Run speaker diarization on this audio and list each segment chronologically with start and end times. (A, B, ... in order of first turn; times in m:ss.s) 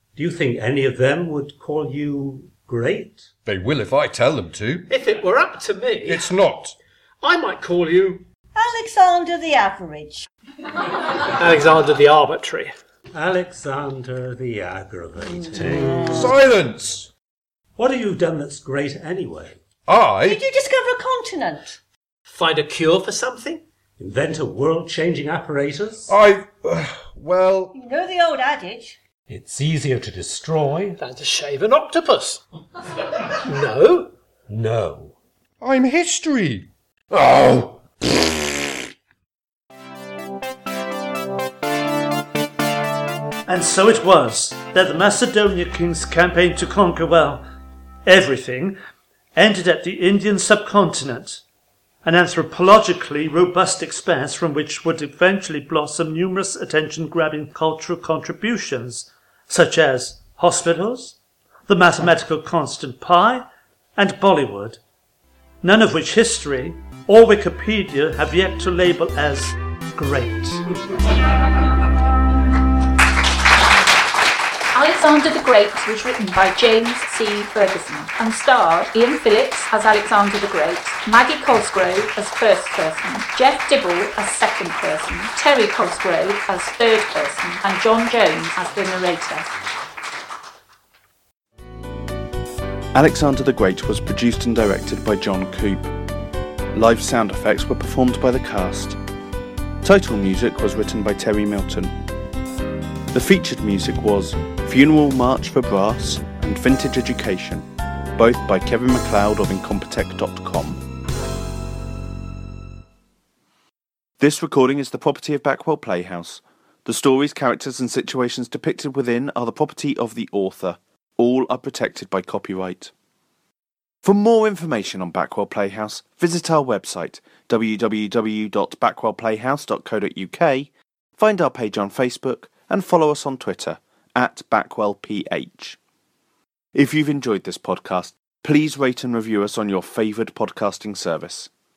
0:00.2-0:03.3 A
0:03.5-0:04.9 B
0:04.9-0:06.3 C
0:06.0-0:06.8 B
0:07.2-0:08.3 C
0:08.6-0:10.3 D
0:11.3-0:12.7 C
0:13.1-0:16.3 A
0:15.5-0:16.2 D
0:16.1-0:17.1 B
0:17.8-0:19.6 A
0:19.9-0:20.4 B
0:20.2-0:21.8 D
0:22.3-0:23.6 C
0:24.0-0:26.1 A
0:26.1-0:27.7 B
0:27.7-0:29.0 D
0:29.3-0:31.0 A
0:31.0-0:32.4 C
0:33.4-0:34.1 C
0:34.5-0:35.1 A
0:35.6-0:38.3 B
0:43.5-0:47.4 E
0:48.1-0:48.8 E
0:49.4-0:51.4 E
0:52.0-1:01.2 E
1:01.7-1:03.5 E
1:04.0-1:04.8 E
1:05.6-1:10.6 E
1:14.7-1:29.5 F
1:32.9-1:35.9 G
1:36.7-1:39.0 G
1:39.8-1:41.9 G
1:43.1-1:50.8 G
1:54.2-2:02.9 G
2:04.0-2:15.8 G
2:16.8-2:21.5 G